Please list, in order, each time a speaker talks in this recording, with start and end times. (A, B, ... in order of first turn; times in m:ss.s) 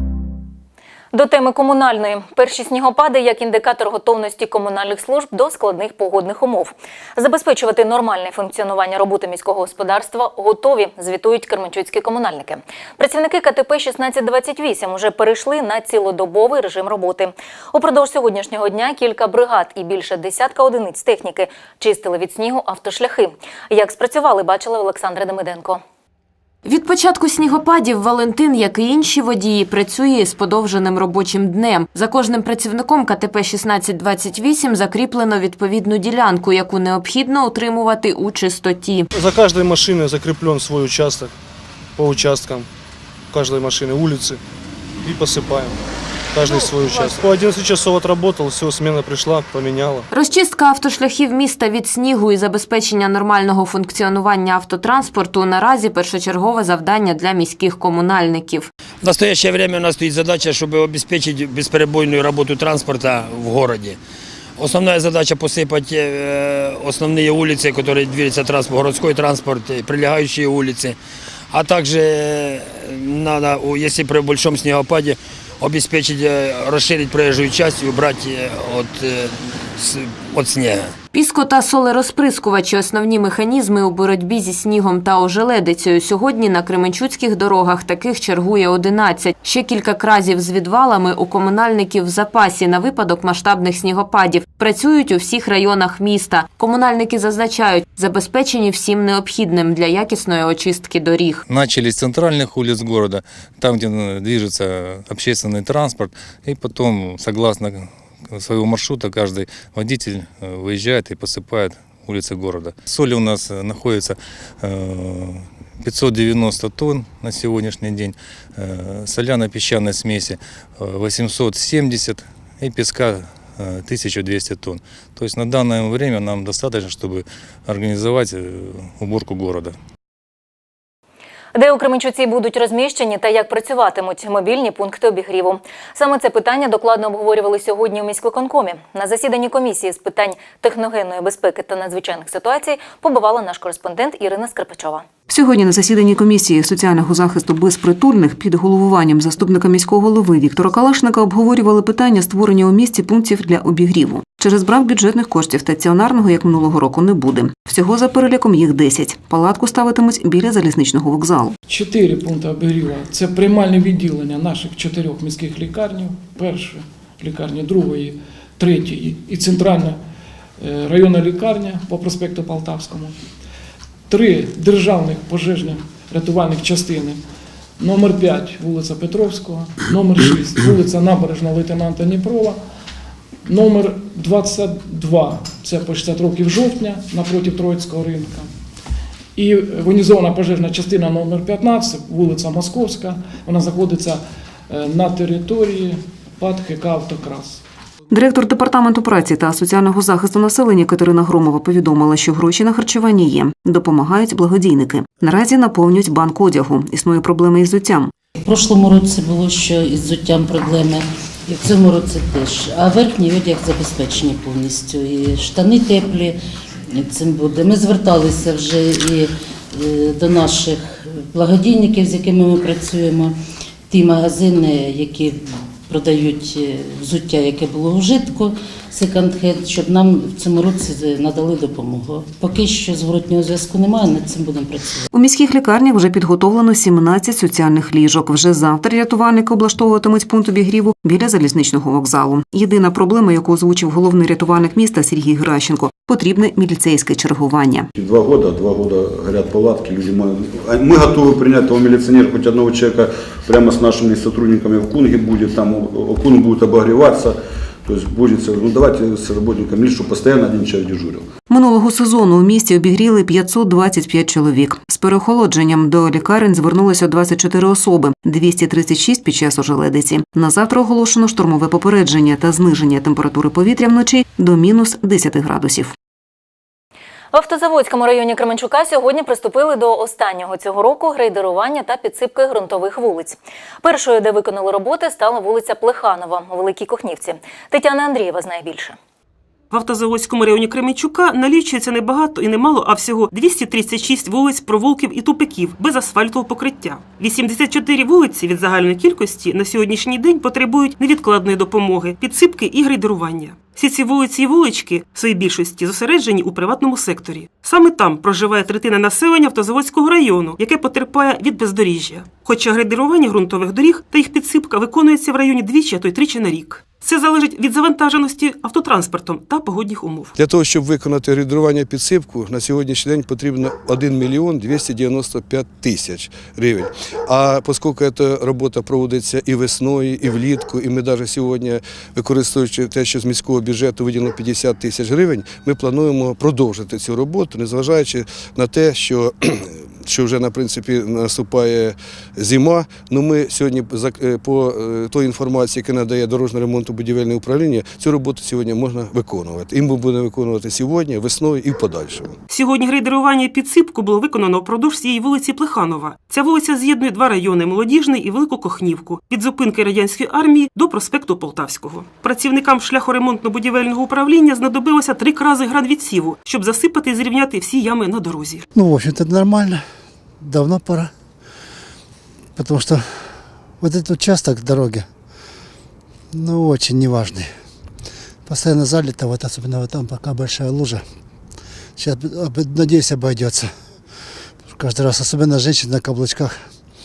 0:01.1-0:25.8 A
0:26.7-0:39.1 B
0:39.1-0:41.3 C
0:42.0-0:42.7 C
0:43.3-0:44.4 C
0:45.0-0:45.8 C
0:46.3-0:50.1 C
0:50.1-0:58.7 B
0:59.0-1:04.0 D
1:04.6-1:11.0 D
1:11.5-1:20.9 D
1:21.1-1:41.4 B
1:41.5-2:09.7 E
2:11.5-2:25.0 A
2:25.3-2:41.6 F
2:41.7-2:50.0 G
2:50.6-2:53.2 G
2:54.1-2:57.2 G
2:57.8-3:02.6 G
3:03.5-3:08.5 G
3:09.4-3:17.6 G
3:18.1-3:28.1 F
3:28.4-3:36.4 H
3:36.9-3:43.4 H
3:43.9-3:55.0 H
3:55.1-4:07.9 F
4:08.0-4:21.3 I
4:21.5-4:35.9 F
4:37.3-4:49.0 A
4:49.7-5:20.3 J
5:20.4-5:52.4 K
5:52.5-6:08.6 J
6:08.8-6:09.8 L
6:10.4-6:11.1 L
6:12.6-6:13.0 L
6:13.8-6:15.1 L
6:16.3-6:17.5 L
6:18.5-6:21.0 L
6:22.0-6:23.7 L
6:24.7-6:26.6 L